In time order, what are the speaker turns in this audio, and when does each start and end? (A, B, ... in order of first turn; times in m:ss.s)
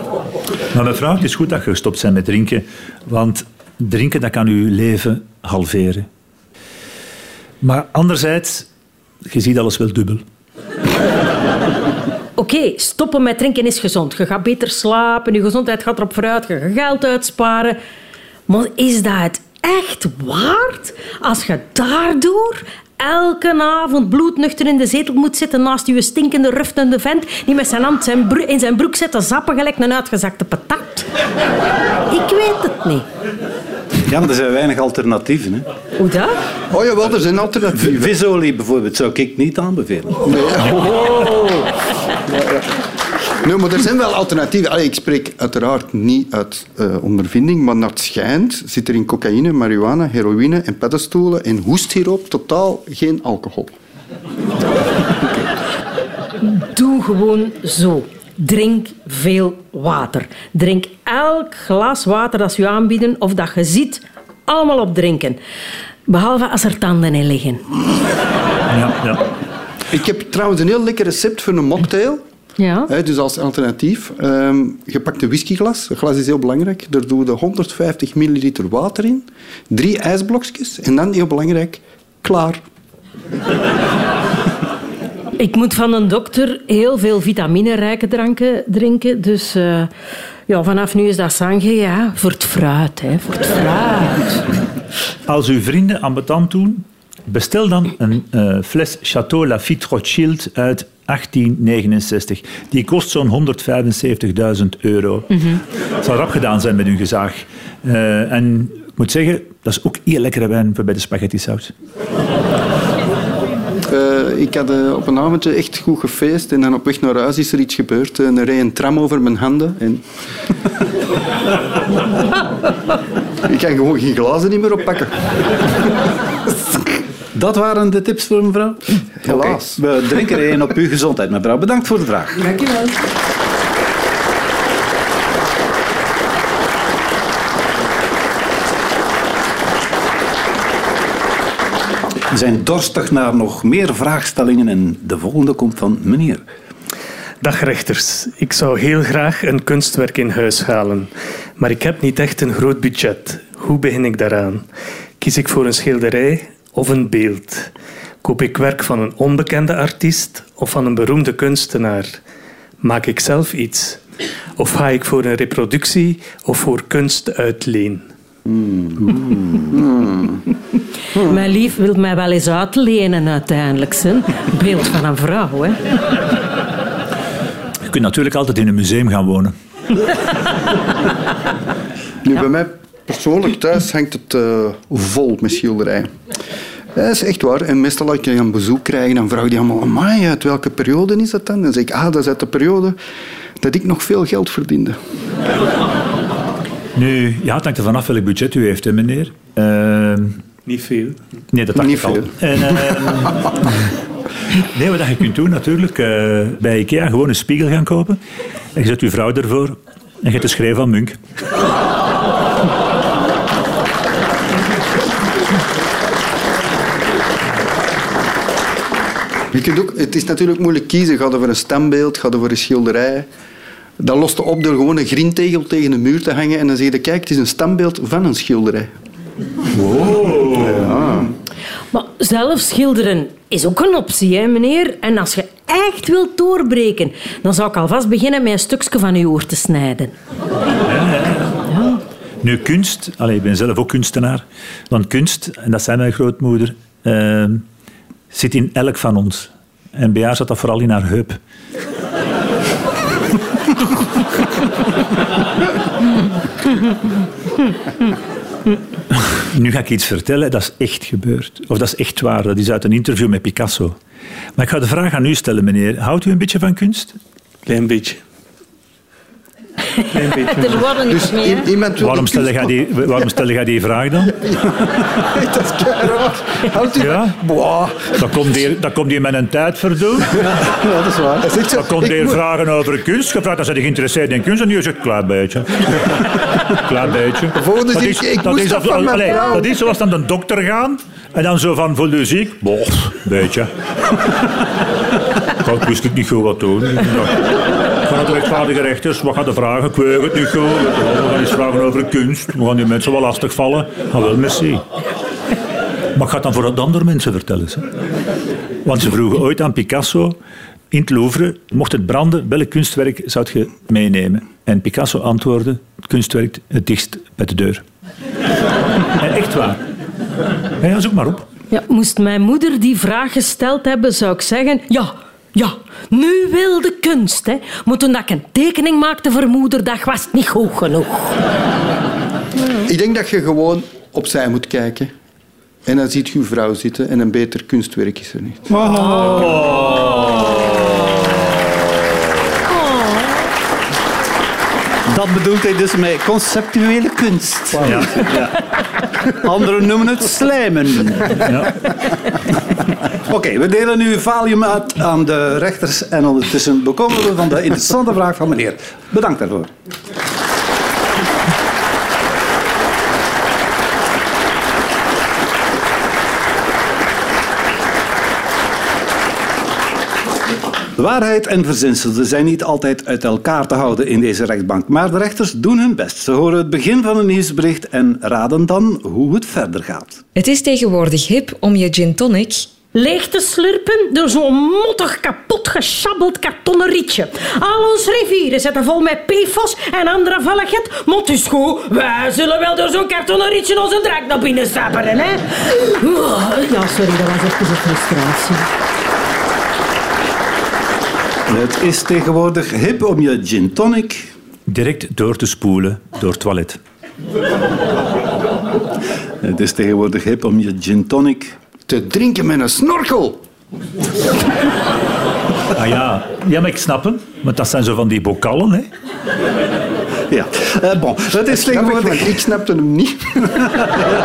0:00.7-0:06.1 A
0:07.6-0:08.7 A
0:09.3-0:10.2 A
0:12.4-0:17.8 B
0:18.5-0:31.1 B
0:32.1-0:33.0 B
0:34.0-0:35.6 C
0:36.0-0:36.4 B
0:36.7-0:38.2 D
0:37.8-0:40.4 C
0:40.2-0:42.7 D
0:43.4-0:53.7 D
0:56.4-1:05.4 B
1:06.1-1:07.6 B
1:08.7-1:09.2 A
1:09.9-1:12.2 D
1:12.6-1:12.9 B
1:12.9-1:22.6 D
1:25.4-1:29.9 B
1:30.5-1:34.4 B
1:35.3-1:51.7 A
1:53.9-2:00.0 D
2:03.4-2:05.9 D
2:07.3-2:12.5 C
2:09.2-2:09.8 D
2:22.3-2:26.4 C
2:27.4-2:34.7 E
2:35.2-2:37.7 E
2:38.2-2:42.2 E
2:42.8-2:44.0 E
2:44.6-2:48.1 E
2:48.5-2:49.0 D
2:49.2-2:49.7 C
2:49.7-2:50.4 D
2:51.1-2:55.8 B
2:57.8-2:59.5 A
3:02.2-3:06.1 D
3:06.9-3:13.0 D
3:13.6-3:15.0 D
3:16.9-3:20.4 A
3:20.6-3:21.2 E
3:21.5-3:23.9 A
3:21.7-3:23.0 D
3:24.5-3:28.2 A
3:28.7-3:31.2 A
3:39.5-3:43.3 D
3:44.0-3:48.9 D
3:49.7-3:51.0 A
3:50.5-3:51.3 D
3:51.9-4:00.1 B
4:00.8-4:01.7 A
4:02.4-4:07.6 A
4:08.3-4:11.4 A
4:19.1-4:24.0 A
4:24.6-4:27.2 A
4:27.6-4:28.2 E
4:30.2-4:30.6 E
4:30.2-4:31.7 B
4:31.1-4:33.0 D
4:32.0-4:34.4 A
4:34.3-4:38.2 D
4:37.0-4:37.4 A
4:38.1-4:40.4 A
4:40.4-4:41.5 C
4:41.4-4:42.4 D
4:41.7-4:53.7 A
4:47.5-4:49.7 D
4:55.6-5:04.8 A
5:06.1-5:07.9 A
5:08.8-5:10.4 A
5:10.9-5:17.8 A
5:19.2-5:19.8 A
5:20.8-5:21.5 A
5:21.7-5:31.4 B
5:32.8-5:35.1 D
5:35.8-5:38.8 D
5:38.7-5:39.5 C
5:38.8-5:40.5 B
5:39.1-5:40.6 A
5:42.7-5:43.3 B
5:45.1-5:48.6 C
5:47.8-5:48.3 A
5:49.3-5:51.5 C
5:51.4-5:51.9 A
5:53.3-5:59.7 C
6:11.0-6:20.2 C
6:20.3-6:22.7 F
6:22.9-6:38.7 B
6:41.5-6:44.3 C
6:44.7-6:46.8 A
6:49.4-6:51.6 C
6:51.9-6:53.4 D
6:55.7-6:58.9 A
7:00.3-7:02.4 C
7:01.5-7:04.0 D